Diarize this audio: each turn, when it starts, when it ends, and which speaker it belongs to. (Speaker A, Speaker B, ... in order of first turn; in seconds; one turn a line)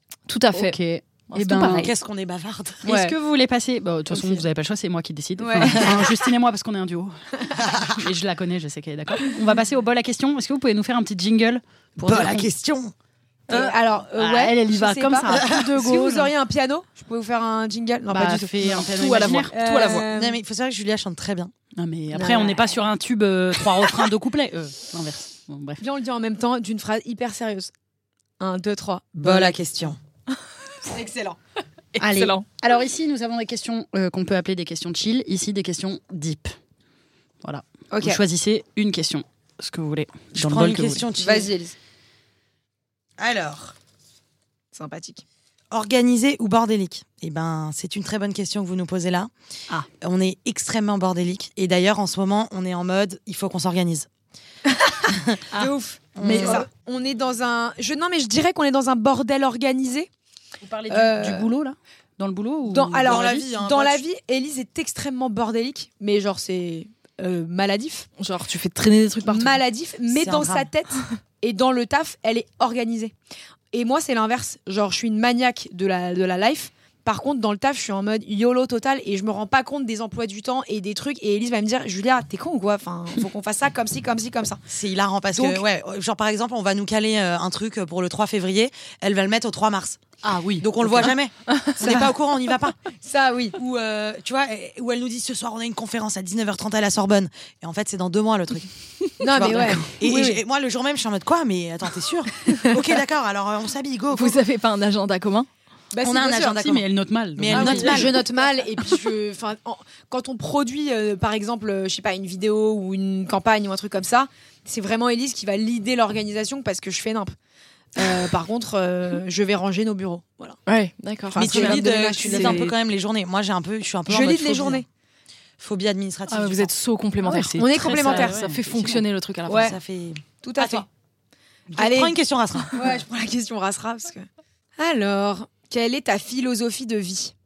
Speaker A: 0.3-0.8
Speaker B: 0.5-1.9
Speaker A: 1.3-1.9
Speaker C: 1.6-2.8
Speaker A: 2.8-3.1
Speaker B: 2.8-12.5
Speaker A: 4.1-4.4
Speaker D: 5.4-6.0
Speaker A: 5.6-5.9
Speaker C: 7.6-8.0
Speaker C: 12.0-12.9
Speaker D: 13.5-18.8
Speaker B: 13.5-16.3
Speaker C: 15.3-15.6
Speaker B: 18.1-19.5
Speaker A: 18.6-20.1
Speaker D: 19.5-20.4
Speaker C: 20.1-21.5
Speaker B: 21.8-25.8
Speaker D: 22.1-22.7
Speaker D: 25.8-27.7
Speaker D: 28.4-29.6
Speaker C: 29.2-30.0
Speaker D: 30.9-31.4
Speaker B: 32.0-36.5
Speaker A: 32.0-32.4
Speaker B: 37.4-41.1
Speaker D: 37.9-38.2
Speaker C: 40.3-41.5
Speaker D: 41.2-41.7
Speaker C: 43.2-43.7
Speaker D: 44.7-45.2
Speaker C: 45.7-49.3
Speaker C: 50.0-54.1
Speaker C: 55.1-55.4
Speaker D: 55.5-60.1
Speaker C: 56.1-56.6
Speaker B: 56.2-56.5
Speaker A: 56.2-56.6
Speaker B: 60.6-63.3
Speaker D: 60.9-61.5
Speaker D: 62.7-68.1
Speaker C: 63.0-64.0
Speaker A: 68.2-69.6
Speaker D: 69.3-73.1
Speaker C: 70.1-70.7
Speaker D: 73.7-84.6
Speaker C: 84.7-90.0
Speaker D: 85.3-85.6
Speaker B: 90.2-91.1
Speaker C: 90.6-92.8
Speaker D: 91.8-92.1
Speaker D: 93.0-93.5
Speaker C: 93.5-98.7
Speaker D: 99.2-100.2
Speaker C: 99.3-104.4
Speaker A: 99.4-99.7
Speaker A: 104.1-105.5
Speaker D: 105.9-106.6
Speaker C: 106.0-106.8
Speaker B: 106.6-108.0
Speaker C: 107.3-108.1
Speaker D: 107.5-117.3
Speaker A: 107.6-108.0
Speaker D: 118.0-120.6
Speaker A: 120.7-122.7
Speaker D: 121.3-122.7
Speaker C: 121.3-124.8
Speaker D: 124.1-124.8
Speaker C: 125.6-126.7
Speaker A: 126.3-129.7
Speaker D: 127.2-128.4
Speaker B: 127.6-129.0
Speaker D: 129.5-129.7
Speaker C: 129.5-130.8
Speaker D: 130.4-130.9
Speaker D: 131.7-132.1
Speaker C: 131.8-132.7
Speaker D: 132.7-134.2
Speaker D: 134.8-137.3